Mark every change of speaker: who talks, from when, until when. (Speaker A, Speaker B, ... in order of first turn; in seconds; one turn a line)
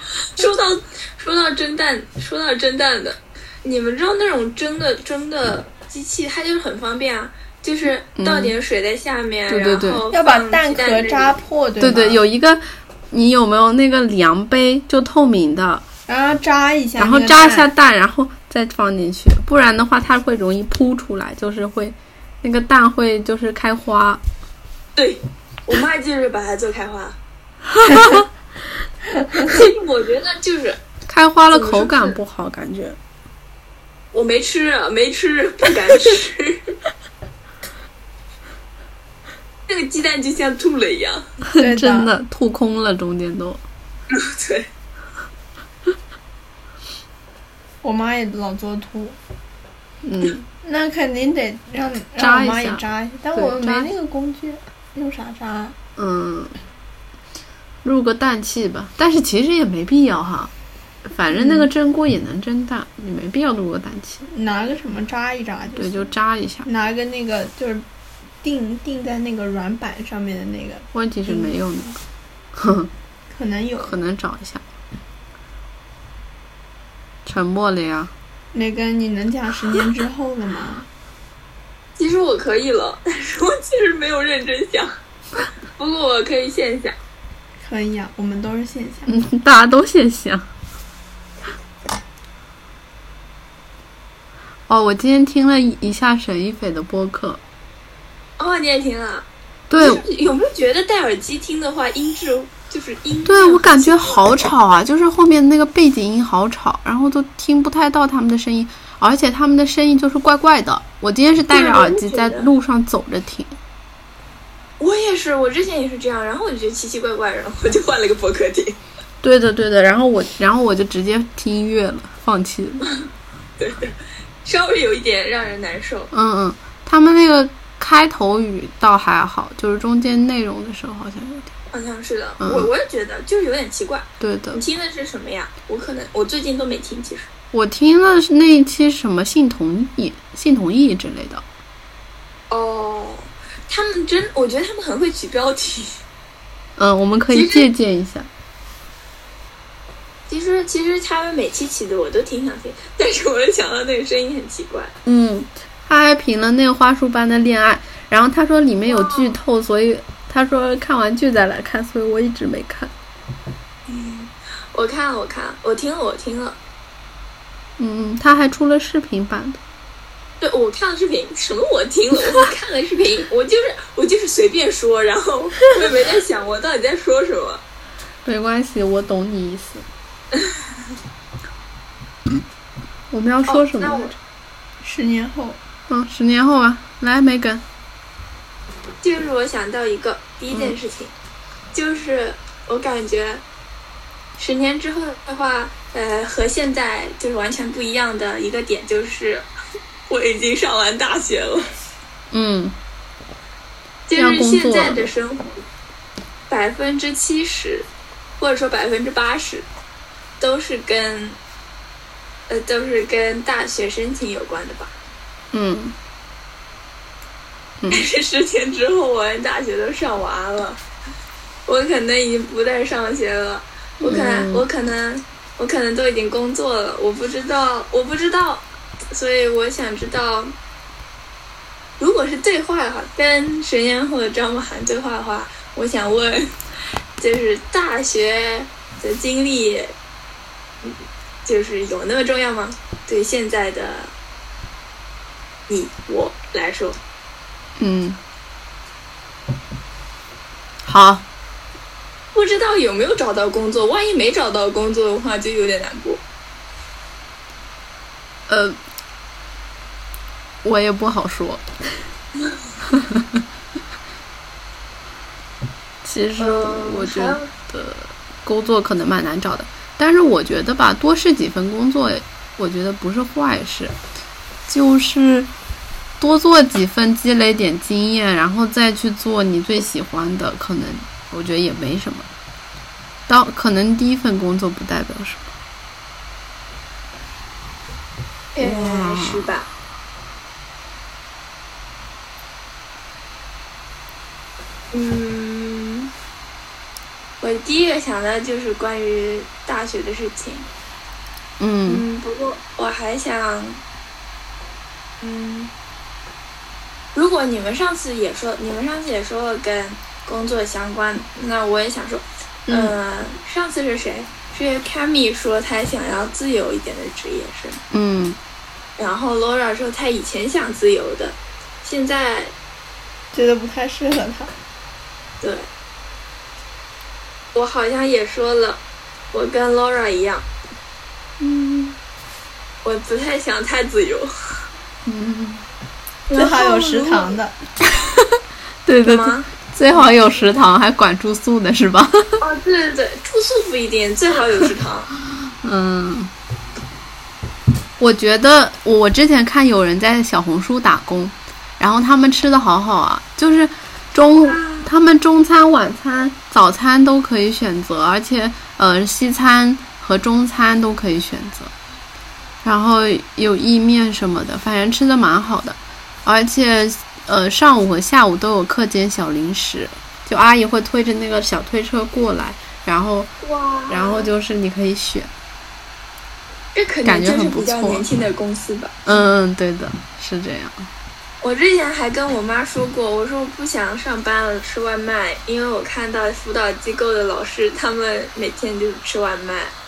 Speaker A: 0.3-11.4
Speaker B: 8.2-8.6
Speaker B: 9.5-10.0
Speaker C: 10.1-12.2
Speaker B: 11.8-15.8
Speaker C: 16.1-17.7
Speaker B: 17.0-24.2
Speaker A: 24.9-27.2
Speaker B: 27.8-28.2
Speaker A: 29.4-30.8
Speaker B: 31.1-33.0
Speaker A: 31.5-32.1
Speaker A: 34.1-36.7
Speaker A: 39.7-41.3
Speaker B: 41.5-43.6
Speaker C: 41.6-42.1
Speaker A: 44.1-44.7
Speaker C: 47.8-49.2
Speaker B: 50.0-50.4
Speaker C: 50.6-55.8
Speaker B: 52.2-53.9
Speaker B: 56.0-56.5
Speaker B: 57.8-60.5
Speaker B: 61.0-64.3
Speaker C: 61.3-61.7
Speaker C: 64.3-66.1
Speaker B: 65.8-66.7
Speaker C: 66.6-67.8
Speaker C: 68.4-71.5
Speaker B: 70.9-72.0
Speaker B: 72.5-72.9
Speaker C: 73.3-73.9
Speaker B: 73.8-74.6
Speaker B: 77.2-78.1
Speaker C: 78.5-80.8
Speaker A: 82.0-87.0
Speaker C: 87.6-89.2
Speaker B: 89.1-90.5
Speaker B: 94.7-97.4
Speaker A: 98.4-104.4
Speaker B: 99.7-100.0
Speaker B: 103.2-113.6
Speaker A: 111.5-112.5
Speaker A: 114.8-118.8
Speaker B: 119.2-122.8
Speaker A: 123.6-126.1
Speaker B: 126.1-131.5
Speaker A: 131.7-137.3
Speaker B: 132.4-132.7
Speaker B: 134.2-134.6
Speaker B: 137.5-141.4
Speaker A: 142.5-146.0
Speaker B: 146.8-148.3
Speaker A: 147.3-147.7
Speaker A: 150.3-154.9
Speaker B: 155.0-162.9
Speaker A: 158.9-159.4
Speaker A: 163.9-166.6
Speaker B: 167.8-169.6
Speaker A: 170.4-177.6
Speaker B: 178.2-179.9
Speaker B: 183.1-184.2
Speaker A: 183.4-184.1
Speaker C: 184.8-185.6
Speaker B: 185.9-187.6
Speaker A: 189.0-191.1
Speaker A: 191.7-193.4
Speaker A: 194.4-199.5
Speaker A: 200.1-201.7
Speaker B: 202.3-202.8
Speaker A: 204.1-205.6
Speaker B: 204.1-205.1
Speaker A: 206.5-207.9
Speaker A: 208.4-209.7
Speaker A: 210.4-211.4
Speaker A: 212.5-214.9
Speaker B: 215.5-215.9
Speaker B: 217.8-218.1
Speaker A: 217.9-220.8
Speaker A: 221.7-230.5
Speaker B: 224.0-224.7
Speaker A: 232.0-236.5
Speaker A: 237.2-239.9
Speaker A: 240.8-244.1
Speaker A: 245.7-247.0
Speaker B: 247.8-248.2
Speaker B: 250.8-251.2
Speaker A: 252.3-256.2
Speaker B: 258.5-258.8
Speaker B: 260.6-262.0
Speaker B: 262.9-263.4
Speaker B: 266.0-273.9
Speaker A: 266.4-267.5
Speaker B: 274.7-275.5
Speaker B: 276.2-282.3
Speaker B: 283.3-285.5
Speaker A: 288.5-289.7
Speaker B: 288.6-289.5
Speaker A: 294.9-296.1
Speaker A: 297.4-300.7
Speaker B: 301.6-302.0
Speaker A: 301.9-303.8
Speaker A: 305.2-305.7
Speaker A: 307.1-317.8
Speaker B: 317.9-318.4
Speaker A: 319.0-322.5
Speaker C: 323.3-324.5
Speaker A: 325.4-325.7
Speaker A: 327.5-328.8
Speaker A: 329.3-330.5
Speaker B: 331.4-332.0
Speaker A: 332.8-334.3
Speaker B: 335.1-335.6
Speaker A: 336.3-337.4
Speaker C: 336.3-337.6
Speaker B: 338.8-342.4
Speaker A: 339.0-339.5
Speaker A: 342.4-345.1
Speaker B: 345.6-346.3
Speaker B: 348.0-361.7
Speaker A: 354.4-354.9
Speaker B: 362.6-373.3
Speaker A: 373.4-374.3
Speaker B: 373.9-375.3
Speaker A: 376.7-379.2
Speaker B: 377.0-378.1
Speaker B: 379.1-380.9
Speaker A: 381.4-389.7